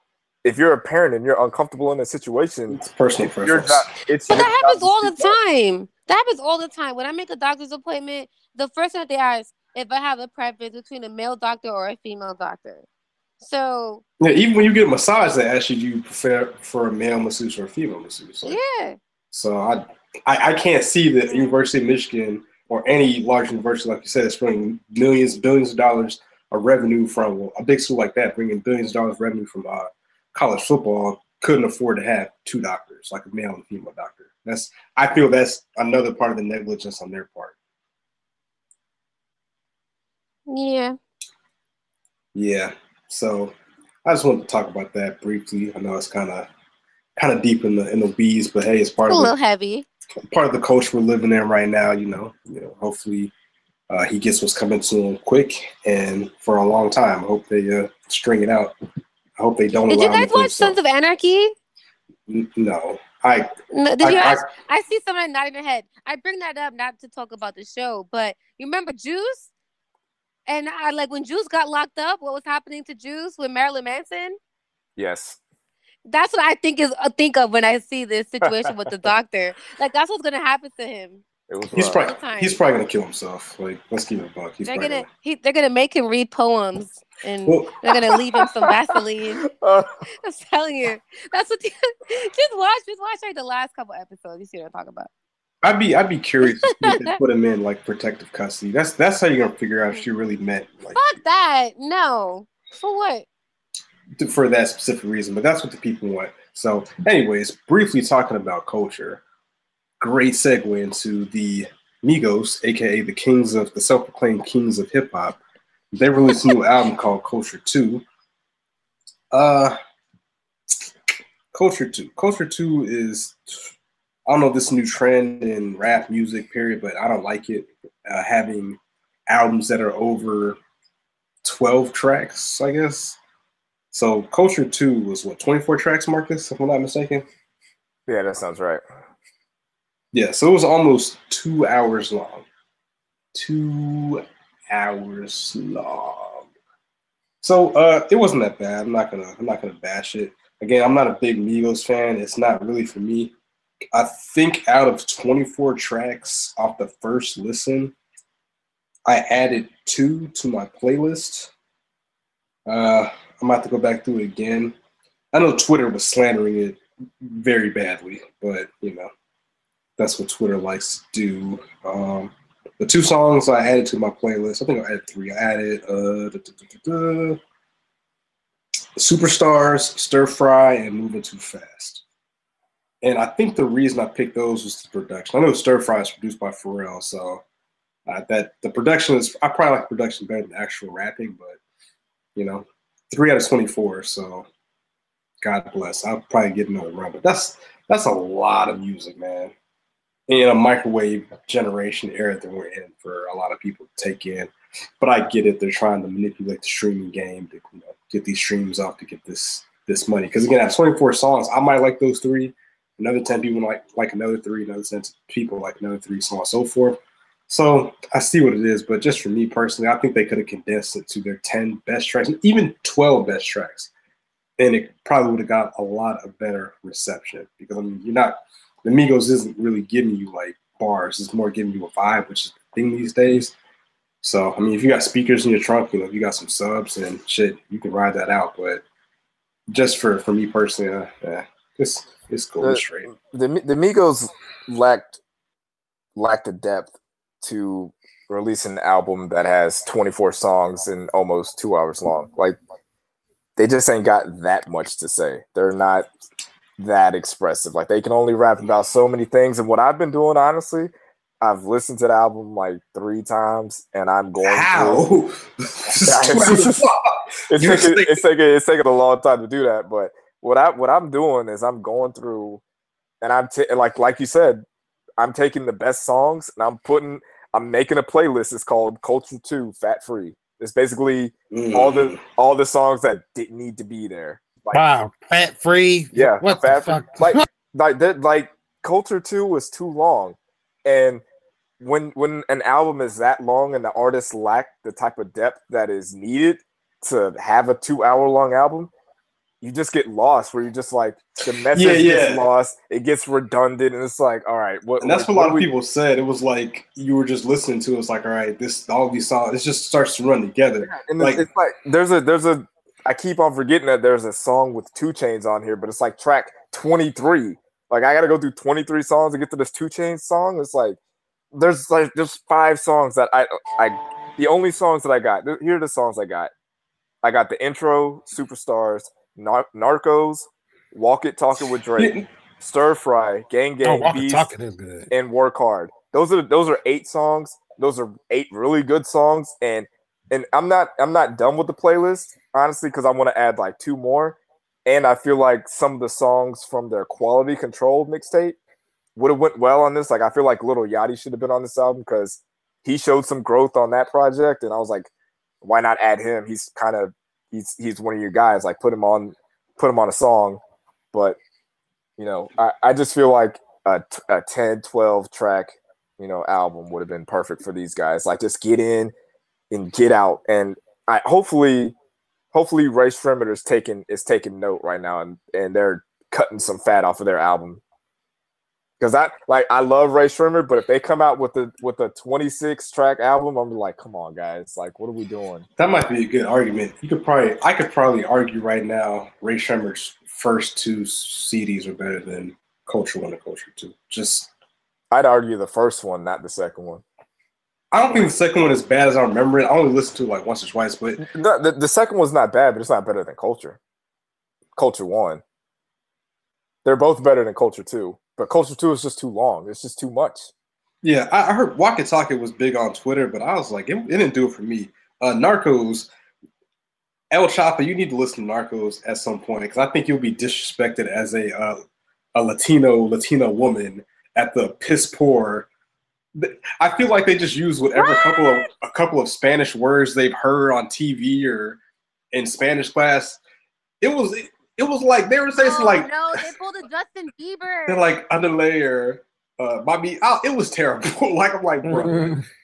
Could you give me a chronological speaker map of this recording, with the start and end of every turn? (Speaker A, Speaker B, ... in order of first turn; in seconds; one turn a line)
Speaker A: 0.4-2.8
Speaker B: 2.7-3.9
Speaker A: 3.4-5.3
Speaker C: 4.3-12.8
Speaker C: 13.4-14.0
Speaker B: 14.2-18.6
Speaker C: 18.4-19.0
Speaker B: 19.3-37.5
Speaker C: 40.5-41.0
Speaker B: 42.3-46.5
Speaker B: 47.2-49.3
Speaker C: 49.1-49.9
Speaker B: 50.3-53.3
Speaker B: 53.9-58.7
Speaker B: 59.4-60.8
Speaker C: 59.9-61.5
Speaker B: 62.3-64.5
Speaker C: 63.7-69.5
Speaker C: 70.5-74.4
Speaker A: 75.0-75.4
Speaker C: 76.1-81.2
Speaker A: 81.5-82.1
Speaker B: 81.7-85.1
Speaker C: 82.0-82.6
Speaker C: 84.6-89.4
Speaker B: 87.4-87.8
Speaker A: 89.4-89.9
Speaker C: 90.2-95.1
Speaker B: 95.6-101.0
Speaker C: 96.8-97.1
Speaker C: 100.9-103.2
Speaker B: 104.2-109.2
Speaker B: 110.0-115.4
Speaker B: 115.9-118.0
Speaker B: 119.3-119.7
Speaker B: 121.5-123.5
Speaker B: 124.3-130.6
Speaker B: 131.4-133.2
Speaker B: 133.9-137.2
Speaker A: 138.1-138.8
Speaker B: 140.1-142.4
Speaker B: 143.3-146.5
Speaker B: 147.4-153.3
Speaker B: 153.9-157.9
Speaker B: 159.1-161.5
Speaker B: 162.7-164.7
Speaker B: 165.3-169.1
Speaker B: 170.0-177.4
Speaker B: 179.0-182.0
Speaker B: 183.0-187.4
Speaker B: 188.1-191.6
Speaker B: 192.3-194.4
Speaker B: 195.4-199.5
Speaker B: 200.3-223.9
Speaker B: 224.6-233.5
Speaker B: 234.2-238.8
Speaker B: 239.7-243.1
Speaker A: 242.6-245.2
Speaker A: 246.2-252.6
Speaker A: 253.6-256.1
Speaker A: 256.8-265.0
Speaker B: 264.4-268.2
Speaker A: 266.1-266.9
Speaker A: 267.5-272.6
Speaker A: 273.2-274.6
Speaker A: 275.2-284.8
Speaker B: 281.5-282.2
Speaker D: 284.7-287.4
Speaker A: 286.1-291.2
Speaker A: 291.8-298.9
Speaker A: 299.6-305.7
Speaker B: 301.7-302.4
Speaker B: 305.0-311.4
Speaker A: 310.8-321.0
Speaker A: 321.5-326.5
Speaker A: 327.2-334.5
Speaker B: 332.0-332.2
Speaker D: 333.8-335.1
Speaker A: 335.1-348.6
Speaker A: 349.1-355.1
Speaker A: 355.6-360.6
Speaker A: 361.1-361.4
Speaker A: 362.2-369.1
Speaker A: 369.7-371.9
Speaker A: 372.5-377.8
Speaker A: 379.0-385.7
Speaker B: 385.8-394.5
Speaker A: 395.1-397.0
Speaker B: 397.9-401.2
Speaker A: 401.2-403.8
Speaker A: 404.8-405.4
Speaker A: 406.8-410.5
Speaker B: 411.0-416.1
Speaker B: 417.3-421.8
Speaker B: 422.3-425.7
Speaker B: 426.4-431.8
Speaker C: 427.9-428.7
Speaker B: 432.3-433.4
Speaker B: 434.0-436.4
Speaker C: 435.6-438.1
Speaker B: 437.9-442.4
Speaker D: 441.9-442.4